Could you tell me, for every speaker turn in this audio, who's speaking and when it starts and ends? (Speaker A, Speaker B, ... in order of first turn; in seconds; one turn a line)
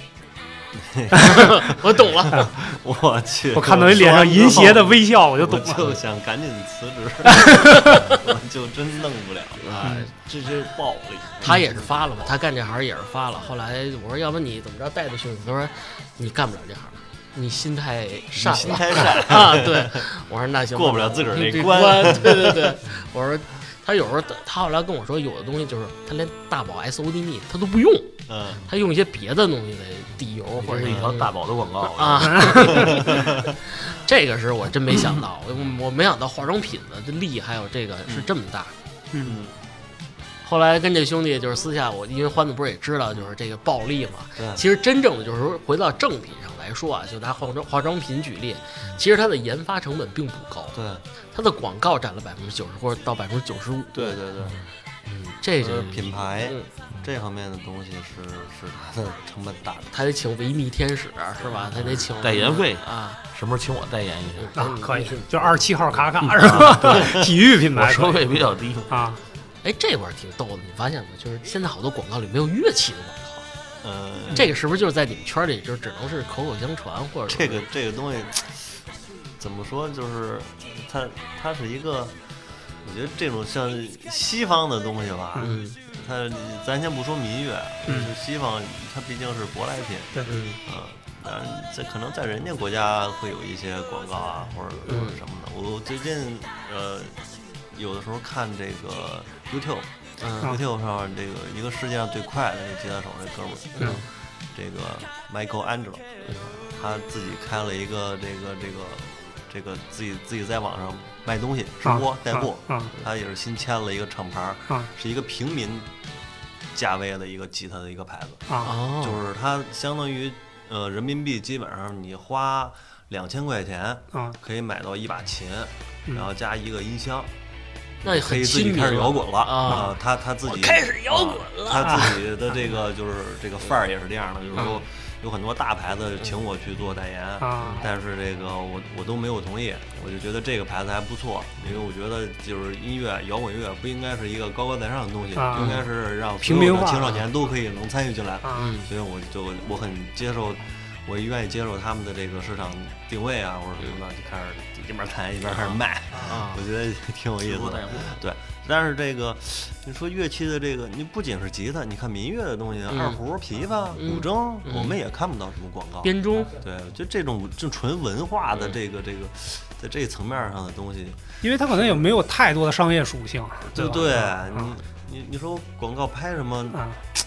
Speaker A: 0.7-9.9
Speaker B: 1.2-2.5
Speaker C: 2.3-2.6
Speaker C: 3.5-6.0
Speaker C: 7.3-8.2
Speaker B: 9.6-31.3
Speaker C: 9.8-10.1
Speaker A: 11.4-11.9
Speaker A: 18.3-20.1
Speaker A: 20.8-22.7
Speaker A: 28.3-28.6
Speaker D: 30.6-32.9
Speaker B: 31.9-38.7
Speaker C: 32.4-33.1
Speaker A: 33.0-33.4
Speaker A: 39.2-39.5
Speaker B: 40.4-50.8
Speaker A: 50.7-51.0
Speaker B: 51.3-54.2
Speaker A: 53.9-54.6
Speaker B: 55.0-56.7
Speaker A: 55.6-60.0
Speaker B: 59.9-63.2
Speaker A: 61.5-62.1
Speaker D: 62.1-64.6
Speaker B: 64.4-65.6
Speaker C: 64.6-68.4
Speaker D: 66.3-68.9
Speaker C: 68.9-69.2
Speaker B: 69.6-73.5
Speaker A: 73.8-74.5
Speaker B: 74.3-77.6
Speaker A: 77.3-78.8
Speaker A: 79.4-82.2
Speaker A: 82.8-97.2
Speaker B: 85.4-85.8
Speaker C: 87.9-88.1
Speaker B: 90.2-90.6
Speaker B: 94.9-95.2
Speaker A: 97.7-99.9
Speaker B: 100.2-100.5
Speaker A: 100.4-106.1
Speaker B: 103.8-104.0
Speaker D: 106.2-106.6
Speaker A: 106.8-115.9
Speaker C: 111.9-112.9
Speaker A: 116.7-127.3
Speaker B: 118.6-119.2
Speaker B: 128.0-132.1
Speaker A: 128.0-172.1
Speaker C: 129.7-129.9
Speaker C: 131.9-132.6
Speaker B: 134.6-134.8
Speaker C: 137.4-137.9
Speaker C: 145.3-145.8
Speaker B: 145.5-145.8
Speaker C: 146.4-147.2
Speaker C: 148.4-148.8
Speaker B: 148.6-148.9
Speaker B: 155.6-156.6
Speaker D: 157.4-158.2
Speaker B: 162.9-163.2
Speaker B: 163.9-165.0
Speaker B: 166.0-166.6
Speaker C: 171.4-174.7
Speaker A: 173.7-176.8
Speaker C: 176.7-177.0